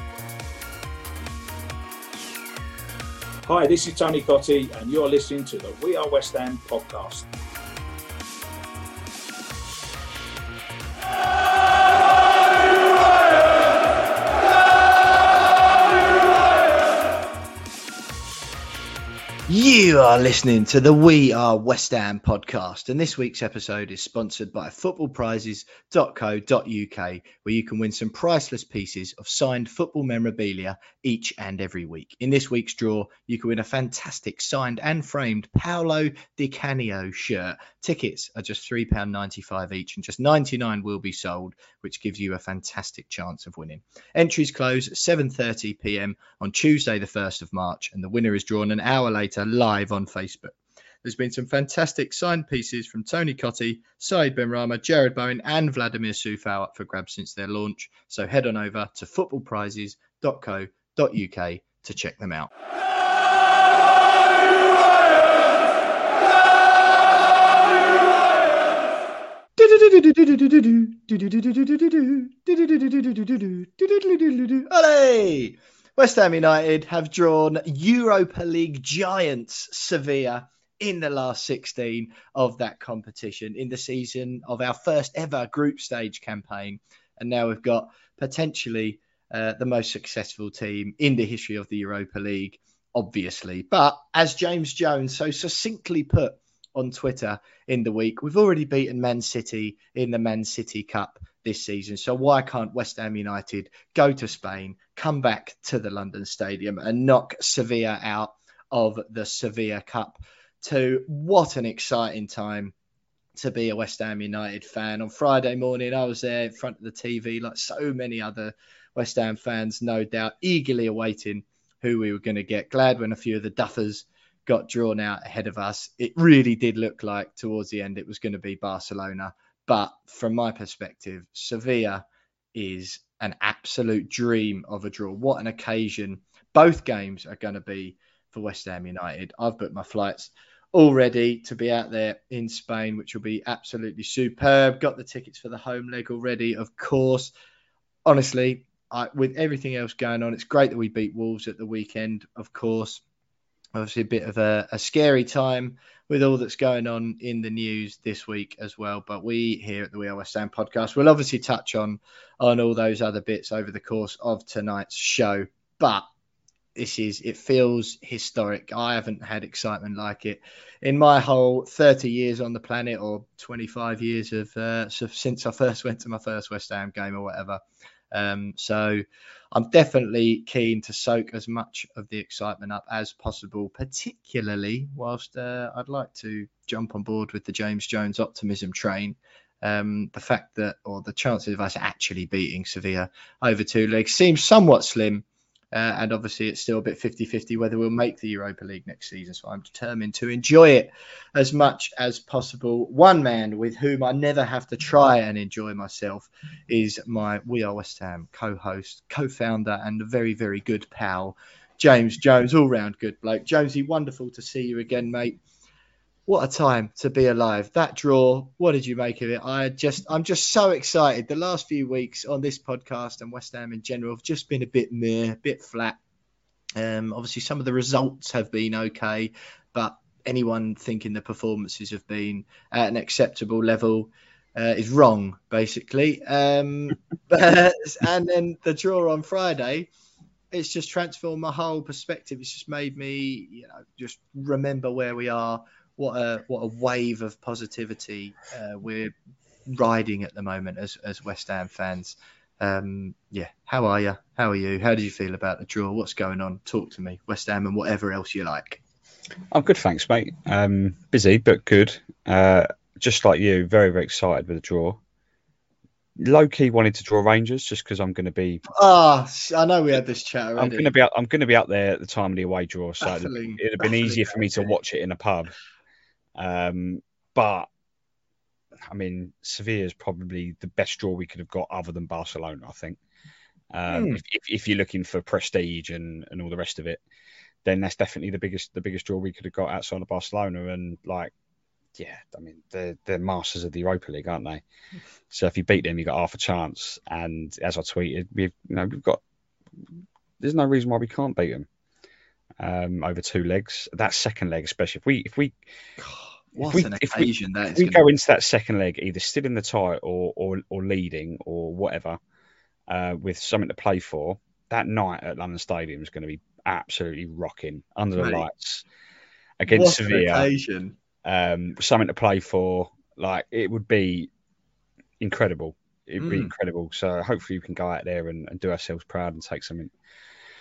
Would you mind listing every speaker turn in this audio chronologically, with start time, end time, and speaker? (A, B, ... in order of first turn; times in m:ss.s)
0:03.4-0:07.3 A
0:19.5-1:02.5 B
1:09.6-1:52.7 B
1:53.4-2:27.3 B
2:28.0-2:33.0 B
2:33.7-2:46.0 B
2:46.8-2:57.6 B
2:58.1-3:35.4 B
3:36.3-3:46.0 B
3:46.8-3:59.9 B
4:00.5-4:09.1 B
4:09.6-4:18.8 B
4:19.5-4:25.0 C
4:26.2-4:28.6 C
4:28.7-4:30.9 B
4:30.6-4:35.5 C
4:33.0-4:34.7 B
4:36.4-4:37.7 C
4:38.9-4:43.0 C
4:43.7-4:47.0 C
4:43.9-4:44.2 B
4:47.6-4:51.3 C
4:52.0-4:54.6 C
4:55.3-4:59.2 C
5:00.4-5:01.7 C
5:02.6-5:05.6 C
5:06.0-5:08.0 B
5:06.6-5:12.2 C
5:12.9-5:18.8 C
5:18.2-5:18.4 B
5:19.6-5:20.5 C
5:19.7-5:20.9 B
5:21.2-5:24.3 C
5:25.2-5:29.9 C
5:26.2-5:26.5 B